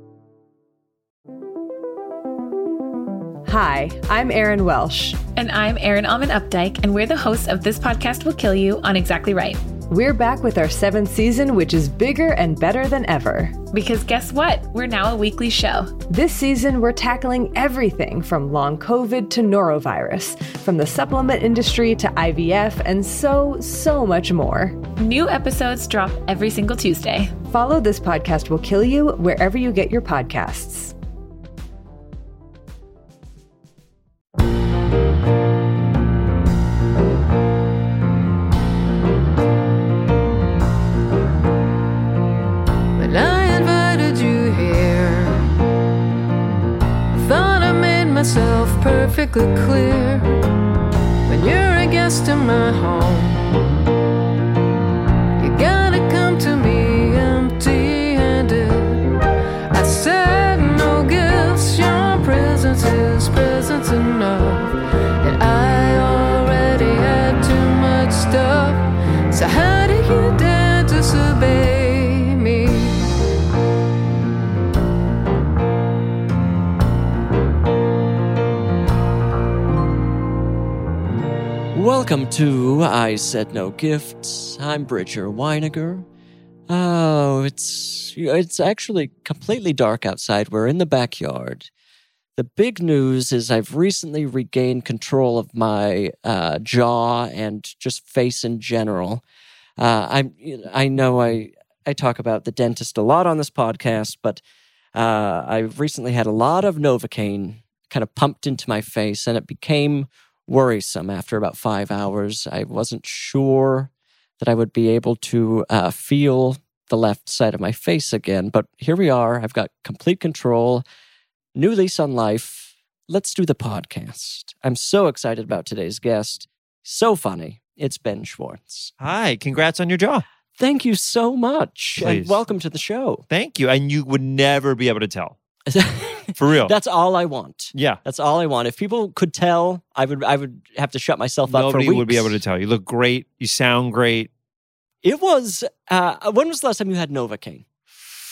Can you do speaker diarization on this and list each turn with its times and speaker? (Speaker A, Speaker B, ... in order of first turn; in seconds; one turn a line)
Speaker A: 3.5-5.2
Speaker B: 5.4-9.6
Speaker A: 9.9-13.6
Speaker B: 13.7-15.9
Speaker A: 16.1-24.8
Speaker B: 25.0-27.3
Speaker A: 27.5-30.9
Speaker C: 43.0-45.4
Speaker C: 47.2-50.2
Speaker C: 51.3-53.5
Speaker C: 55.4-59.0
Speaker C: 59.7-73.0
Speaker D: 81.7-86.1
Speaker D: 86.7-91.7
Speaker D: 92.4-99.2
Speaker D: 99.8-104.4
Speaker D: 105.0-120.8
Speaker D: 121.5-128.9
Speaker E: 129.0-130.2
Speaker D: 130.6-133.2
Speaker E: 132.0-132.4
Speaker E: 133.3-135.4
Speaker D: 135.7-142.4
Speaker E: 136.4-136.8
Speaker E: 137.7-138.0
Speaker E: 141.5-144.3
Speaker D: 145.0-147.6